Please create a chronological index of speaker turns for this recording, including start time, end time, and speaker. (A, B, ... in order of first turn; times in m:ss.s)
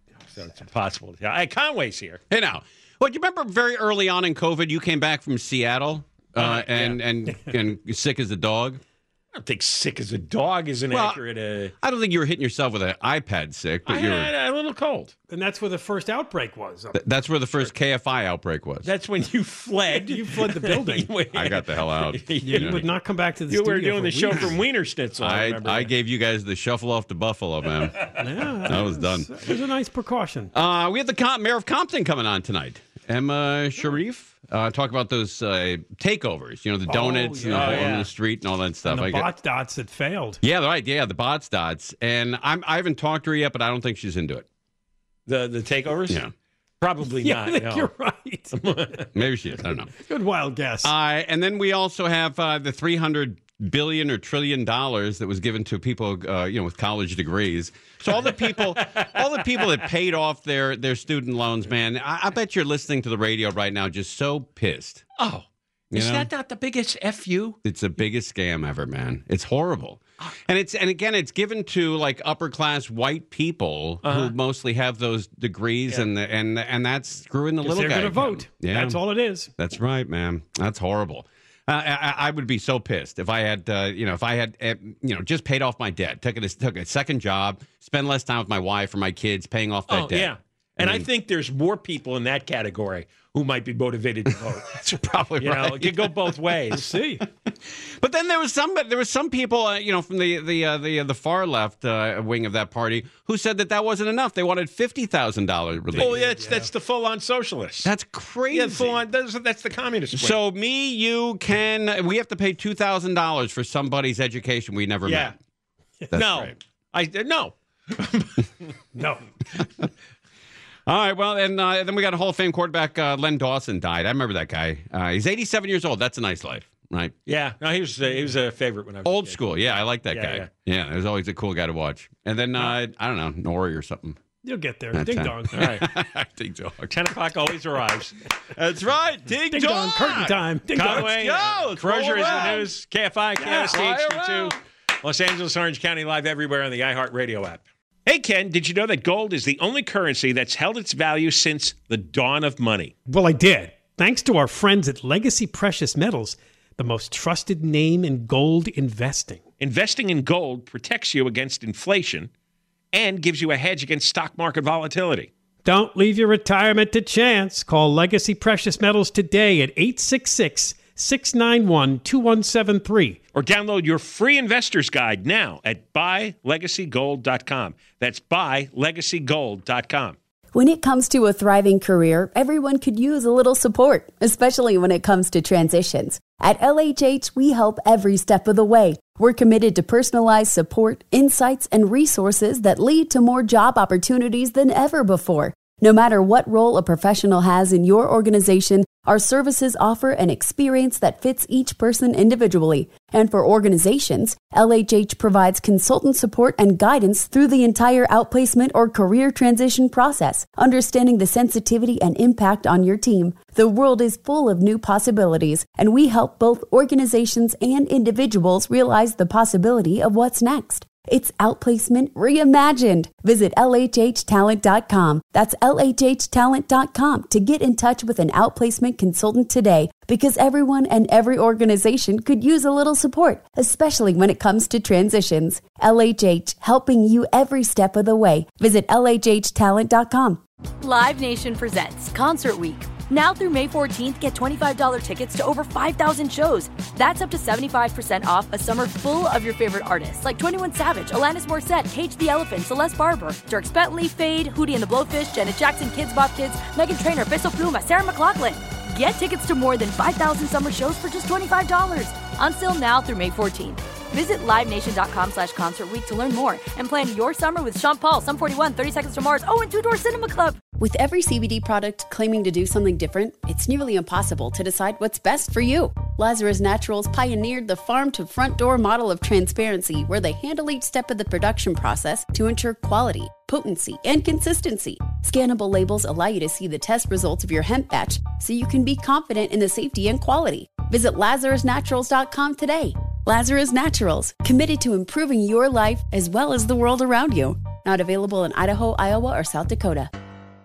0:00.3-0:02.2 A
0:02.3-0:08.8 B
0:06.4-0:07.0 A
0:09.3-0:11.7 A
0:10.9-0:11.2 B
0:11.8-0:14.3 B
0:13.9-0:15.1 A
0:15.3-0:17.0 C
0:17.0-0:18.9 B
0:18.8-0:22.9 A
0:19.9-0:21.1 C
0:21.3-0:22.8 B
0:22.4-0:24.6 C
0:23.5-0:25.9 A
0:25.2-0:29.3 B
0:28.2-0:30.5 C
0:30.6-0:39.3 B
0:36.9-0:38.0 C
0:37.5-0:38.1 A
0:38.8-0:40.4 C
0:40.4-0:44.5 B
0:45.3-0:46.2 A
0:46.8-0:47.9 A
0:47.1-0:48.6 C
0:48.5-0:49.1 A
0:49.1-0:49.9 B
0:50.0-0:50.9 C
0:50.8-1:05.0 B
0:58.2-0:59.8 A
1:05.2-1:07.6 A
1:05.9-1:06.3 B
1:07.6-1:19.0 B
1:14.0-1:14.4 A
1:17.6-1:19.5 C
1:19.6-1:31.1 B
1:29.9-1:37.0 A
1:34.7-1:36.4 B
1:36.7-1:37.3 C
1:37.5-1:46.2 B
1:45.9-1:46.7 C
1:46.0-1:47.9 A
1:47.8-1:49.0 B
1:48.5-1:50.4 A
1:50.1-1:55.4 B
1:55.0-1:55.4 A
1:56.1-1:56.6 B
1:56.1-1:58.7 A
1:59.0-1:59.3 C
2:00.9-2:07.1 B
2:07.3-2:10.5 A
2:09.0-2:14.2 B
2:14.4-2:15.8 C
2:14.9-2:17.0 B
2:15.5-2:15.9 A
2:16.9-2:18.2 A
2:18.5-2:22.7 B
2:19.5-2:21.4 C
2:20.8-2:32.9 A
2:22.1-2:22.7 C
2:23.4-2:23.8 C
2:23.7-2:24.6 B
2:33.1-2:39.4 C
2:39.6-2:42.3 A
2:42.9-2:45.3 A
2:45.6-2:53.2 C
2:53.3-3:00.2 A
3:00.5-4:00.4 D
4:00.8-4:30.6 E
4:30.8-5:00.1 D